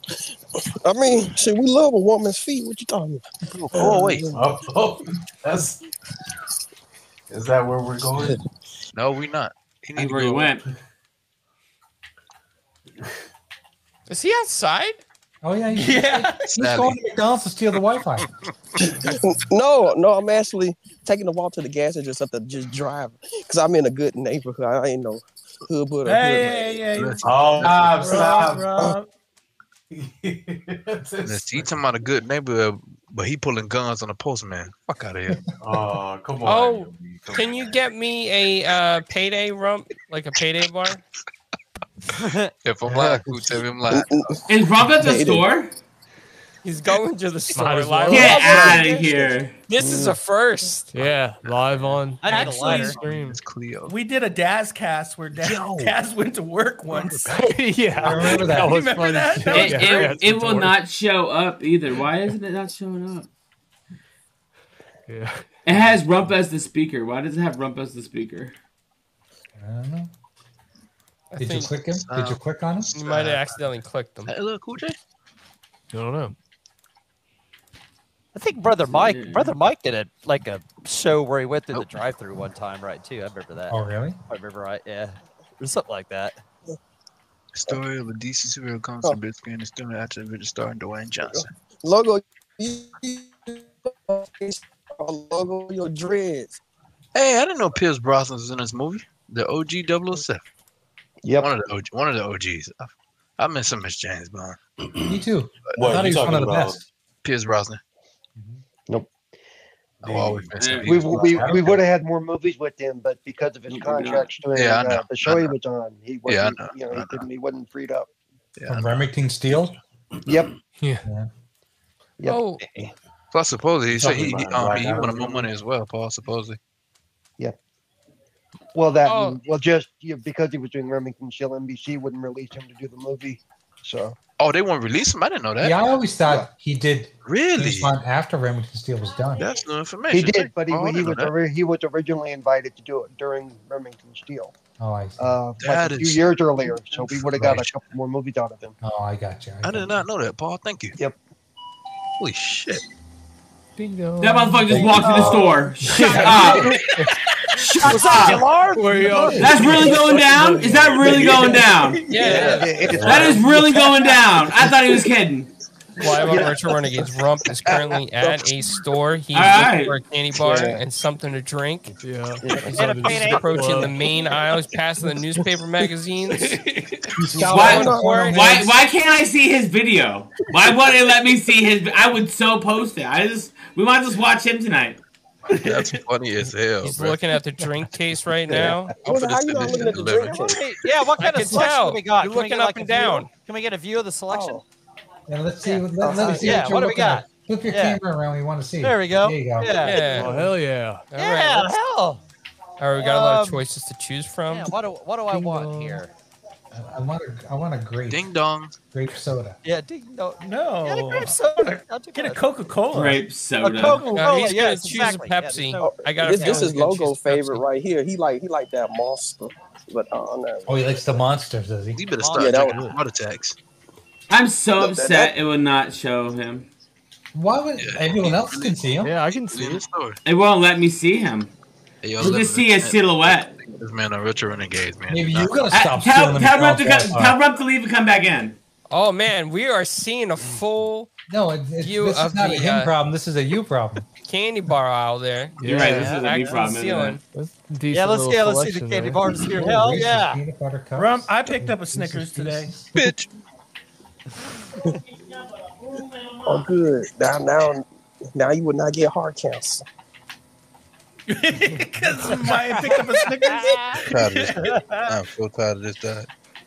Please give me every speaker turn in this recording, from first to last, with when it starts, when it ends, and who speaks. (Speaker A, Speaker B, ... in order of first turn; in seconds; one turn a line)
Speaker A: 0.6-4.4
Speaker B: 3.5-4.2
Speaker C: 3.9-5.8
Speaker C: 7.3-8.4
Speaker B: 8.9-10.6
Speaker D: 9.9-10.6
Speaker E: 14.1-15.0
Speaker F: 15.4-18.3
Speaker G: 15.7-16.5
Speaker B: 16.5-17.0
Speaker B: 18.8-19.2
Speaker A: 18.8-26.8
Speaker G: 26.1-29.1
Speaker B: 26.9-27.9
Speaker C: 27.2-28.9
Speaker C: 29.9-31.8
Speaker B: 31.2-35.5
Speaker C: 35.6-37.8
Speaker E: 36.4-41.0
Speaker H: 42.2-42.5
Speaker B: 42.6-44.3
Speaker I: 42.9-43.4
Speaker A: 43.9-44.4
Speaker D: 44.5-45.7
Speaker A: 45.0-45.5
Speaker E: 46.6-49.0
Speaker J: 47.5-48.5
Speaker D: 48.1-49.5
Speaker E: 49.7-50.9
Speaker I: 49.8-50.2
Speaker J: 50.9-52.3
Speaker B: 51.0-52.0
Speaker H: 52.2-53.0
Speaker G: 52.2-53.0
Speaker B: 52.8-54.0
Speaker E: 52.8-53.3
Speaker G: 53.9-57.4
Speaker B: 55.4-56.0
Speaker B: 56.9-57.2
Speaker J: 56.9-60.8
Speaker G: 58.0-60.2
Speaker F: 58.0-58.9
Speaker D: 59.5-63.3
Speaker J: 65.1-65.5
Speaker D: 65.6-68.5
Speaker F: 69.5-70.1
Speaker E: 71.3-71.7
Speaker F: 71.4-72.9
Speaker B: 72.1-72.4
Speaker E: 72.9-74.3
Speaker B: 72.9-73.6
Speaker B: 74.3-75.0
Speaker J: 75.9-76.3
Speaker H: 78.3-83.8
Speaker D: 78.9-79.5
Speaker F: 83.7-84.2
Speaker H: 84.3-86.4
Speaker B: 87.5-91.5
Speaker A: 91.3-96.6
Speaker B: 97.1-100.4
Speaker I: 101.2-101.5
Speaker B: 101.4-104.6
Speaker C: 104.8-105.2
Speaker F: 105.0-106.8
Speaker B: 105.7-106.1
Speaker C: 105.8-106.8
Speaker B: 107.2-107.8
Speaker F: 108.4-108.6
Speaker C: 110.0-111.8
Speaker B: 110.0-111.4
Speaker D: 110.6-111.0
Speaker I: 110.9-118.1
Speaker D: 113.7-114.3
Speaker B: 114.5-115.5
Speaker B: 116.3-117.2
Speaker B: 118.6-119.1
Speaker F: 118.7-119.8
Speaker C: 120.3-120.5
Speaker J: 120.8-121.0
Speaker I: 122.2-122.6
Speaker E: 122.2-122.6
Speaker B: 123.3-126.6
Speaker C: 123.9-125.5
Speaker I: 128.7-134.2
Speaker E: 129.1-129.4
Speaker B: 134.4-135.8
Speaker F: 135.6-139.5
Speaker B: 137.2-137.9
Speaker B: 139.4-141.3
Speaker I: 140.1-144.5
Speaker F: 144.8-145.3
Speaker I: 145.2-148.8
Speaker B: 145.6-147.8
Speaker F: 148.8-150.0
Speaker B: 149.6-151.0
Speaker B: 152.2-152.8
Speaker J: 153.8-157.2
Speaker D: 154.2-156.7
Speaker F: 154.7-155.1
Speaker C: 154.8-155.6
Speaker F: 156.0-156.8
Speaker D: 157.6-158.4
Speaker J: 157.8-161.3
Speaker F: 157.8-159.9
Speaker D: 159.4-162.0
Speaker I: 161.2-161.6
Speaker E: 162.1-162.8
Speaker B: 162.2-163.1
Speaker I: 162.2-163.7
Speaker D: 162.9-165.5
Speaker E: 166.0-171.9
Speaker I: 166.2-167.1
Speaker D: 169.3-169.9
Speaker A: 170.4-170.8
Speaker J: 172.0-174.0
Speaker I: 172.4-172.8
Speaker E: 172.7-176.6
Speaker H: 172.7-173.6
Speaker F: 177.2-178.8
Speaker E: 177.4-178.4
Speaker D: 177.5-185.0
Speaker A: 177.5-178.7
Speaker B: 185.6-187.2
Speaker G: 185.6-186.0
Speaker E: 186.8-188.9
Speaker I: 188.5-188.9
Speaker A: 188.6-190.6
Speaker B: 189.0-190.6
Speaker H: 189.8-194.6
Speaker E: 191.2-193.3
Speaker A: 194.3-194.6
Speaker F: 195.3-200.0
Speaker H: 195.6-198.0
Speaker A: 196.0-196.8
Speaker H: 198.8-200.5
Speaker E: 199.8-200.4
Speaker J: 200.1-201.0
Speaker E: 201.1-201.7
Speaker H: 201.1-202.2
Speaker E: 202.8-204.7
Speaker H: 202.9-203.6
Speaker H: 204.5-206.1
Speaker J: 205.3-206.0
Speaker F: 206.7-208.3
Speaker B: 208.1-208.7
Speaker F: 208.9-209.6
Speaker H: 209.6-212.7
Speaker G: 210.4-213.2
Speaker D: 212.9-214.1
Speaker H: 213.6-216.6
Speaker E: 214.1-217.6
Speaker A: 215.8-221.2
Speaker F: 216.4-216.7
Speaker F: 220.7-222.0
Speaker B: 221.9-223.6
Speaker H: 222.2-223.0
Speaker A: 222.3-222.8
Speaker D: 224.3-226.7
Speaker A: 224.8-225.3
Speaker F: 227.3-229.1
Speaker B: 227.8-230.2
Speaker J: 229.0-229.8
Speaker D: 230.2-231.5
Speaker B: 232.0-235.7
Speaker D: 232.2-233.5
Speaker F: 235.1-237.4
Speaker D: 235.7-238.6
Speaker E: 238.9-241.1
Speaker F: 241.3-244.0
Speaker E: 241.8-242.9
Speaker E: 244.2-247.2
Speaker J: 245.6-246.2
Speaker D: 245.6-247.2
Speaker H: 245.8-246.5
Speaker J: 247.3-249.6
Speaker H: 247.9-250.4
Speaker F: 249.5-253.0
Speaker G: 250.9-252.7
Speaker B: 252.9-253.3
Speaker A: 256.4-259.8
Speaker G: 261.3-265.2
Speaker H: 262.8-263.8
Speaker B: 264.1-266.3